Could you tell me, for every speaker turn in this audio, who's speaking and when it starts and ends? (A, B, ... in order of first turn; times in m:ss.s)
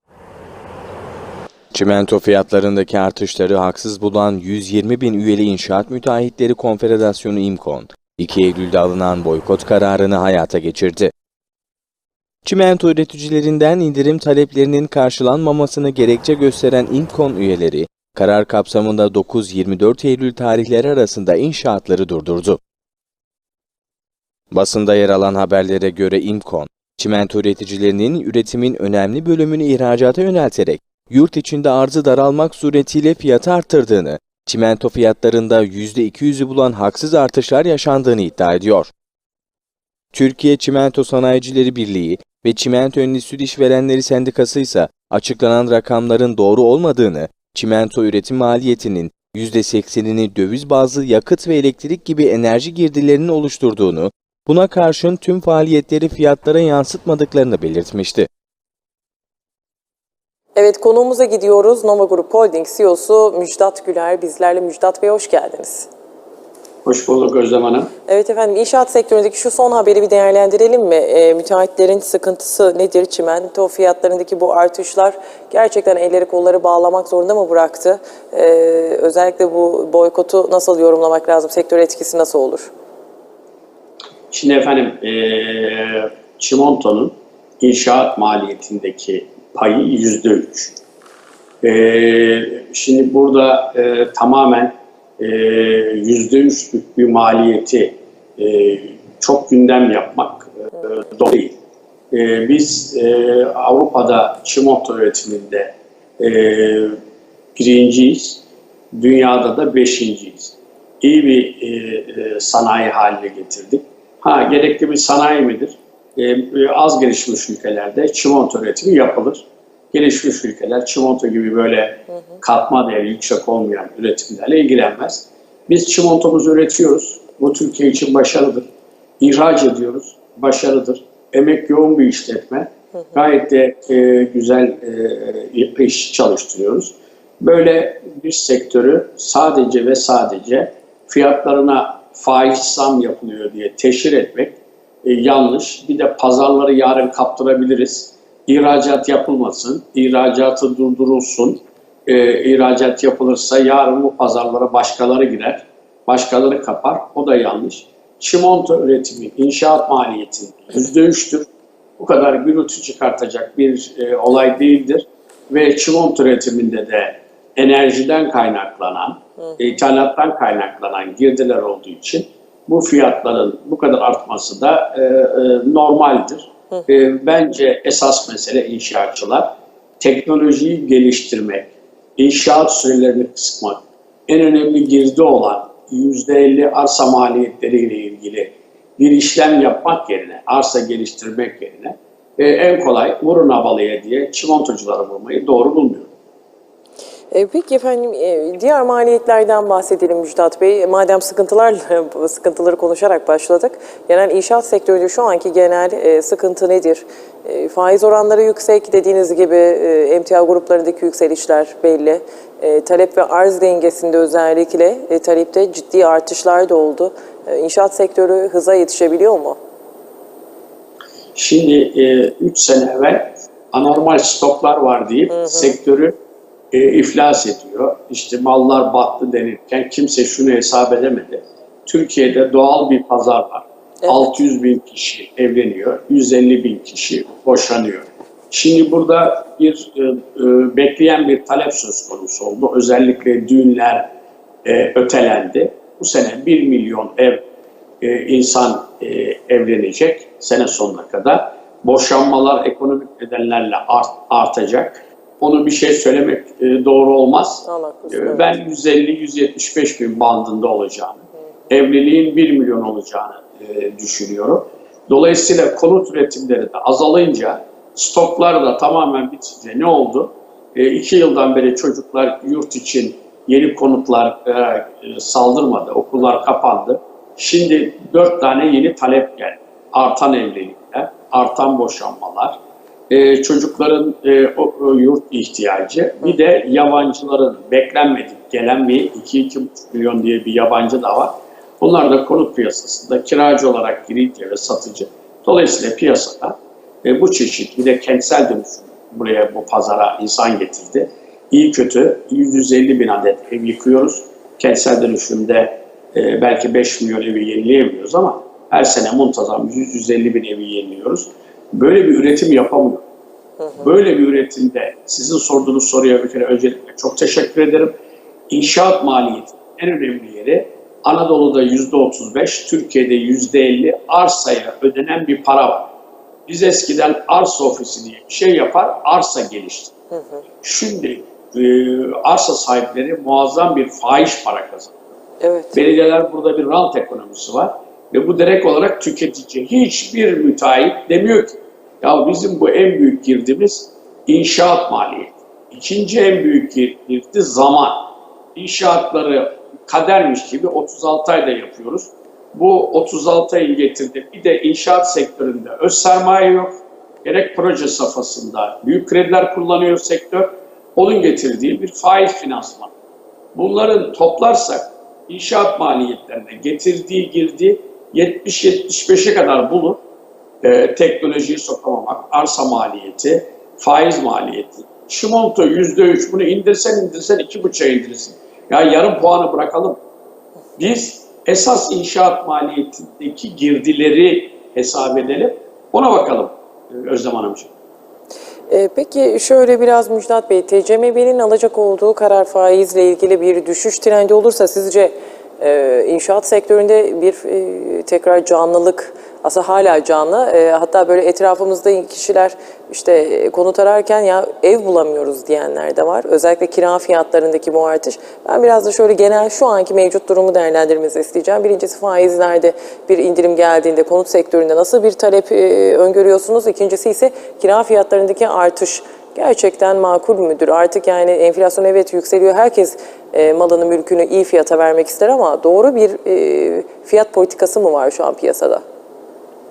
0:01.7-0:11.1 A
0:12.4-0:22.6 A
0:24.5-0:38.9 A
0:40.1-0:58.3 A
1:00.5-1:05.9 B
1:06.8-1:07.9 C
1:08.1-1:22.7 B
1:24.3-1:30.8 C
1:31.6-1:41.6 C
1:42.1-1:47.0 C
1:47.6-2:08.7 C
2:09.2-3:16.1 C
3:17.3-3:39.6 B
3:41.3-3:46.2 C
3:45.3-3:45.8 B
3:46.7-4:04.1 C
3:54.0-3:54.3 B
4:04.6-4:07.4 C
4:08.0-4:42.6 C
4:17.6-4:18.5 B
4:43.1-5:13.0 C
5:13.8-5:18.0 C
5:18.5-5:25.9 C
5:26.5-5:29.9 C
5:30.6-5:34.9 C
5:35.4-5:35.8 B
5:35.7-6:02.9 C
6:03.5-6:10.0 C
6:10.6-6:20.0 C
6:20.8-6:27.7 C
6:28.7-7:08.8 B